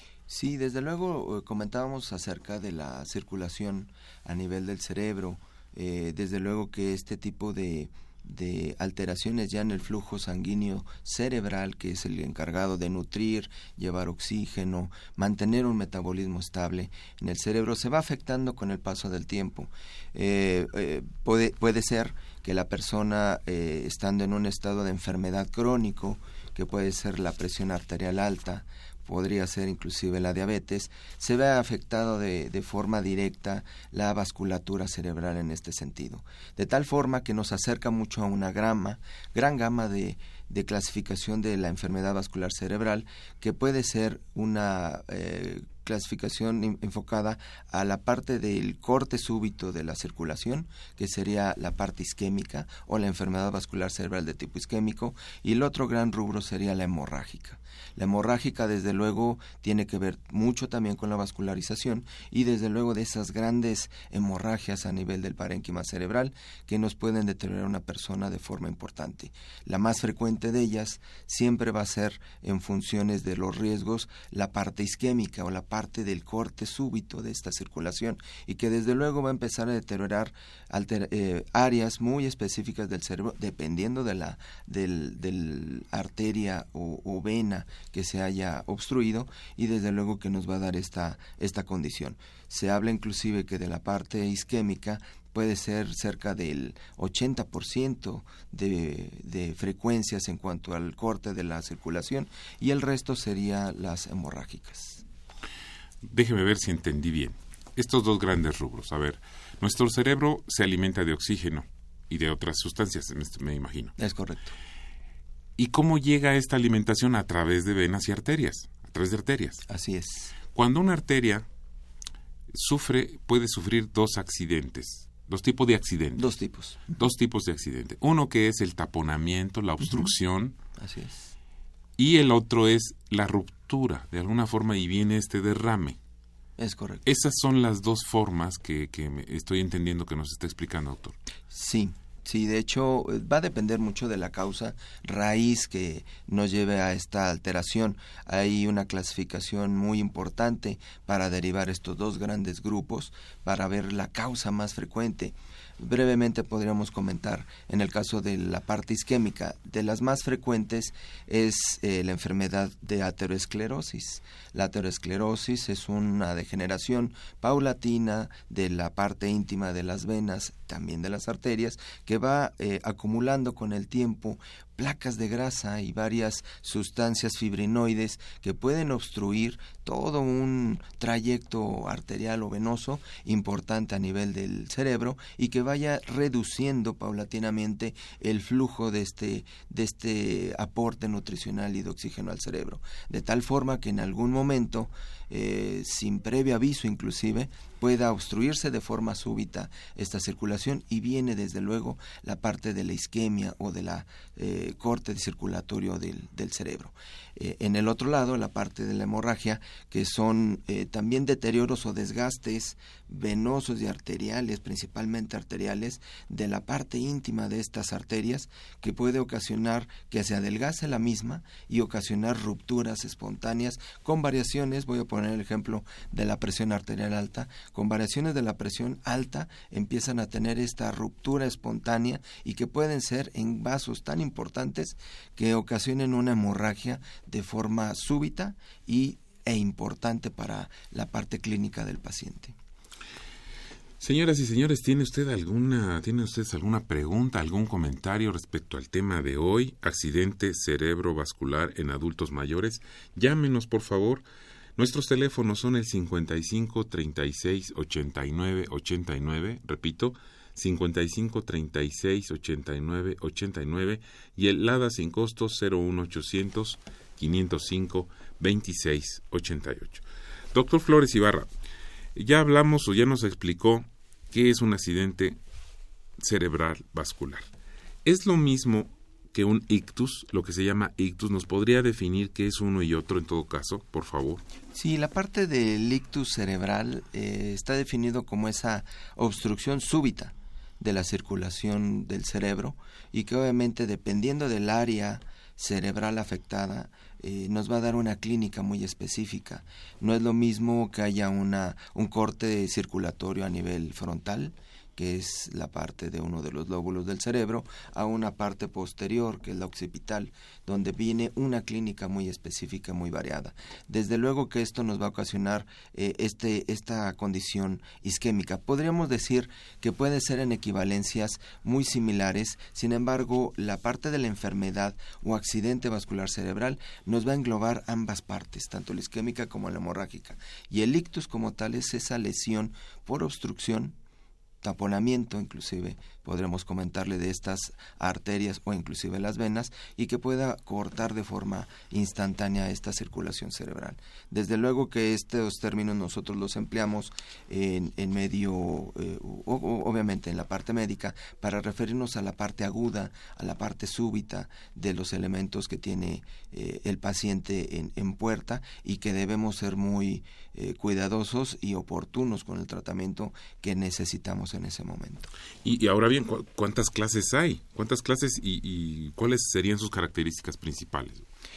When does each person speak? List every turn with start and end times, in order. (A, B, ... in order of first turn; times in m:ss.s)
0:00.3-1:45.0 A
1:46.0-1:53.9 B
1:54.0-1:54.5 A
1:55.6-1:59.6 B
1:59.7-2:00.4 A
2:00.5-2:01.4 B
2:02.5-2:06.2 B
2:06.2-2:06.9 A
2:06.9-2:10.6 B
2:10.8-2:11.4 A
2:12.0-2:16.0 B
2:16.6-2:17.0 A
2:17.0-2:21.2 B
2:21.5-4:02.5 A
4:04.0-4:14.2 B
4:14.8-4:31.5 B
4:32.1-4:35.4 B
4:36.2-4:37.5 B
4:38.0-4:44.4 B
4:44.7-5:33.9 A
5:34.6-6:05.3 A
6:05.6-6:11.2 B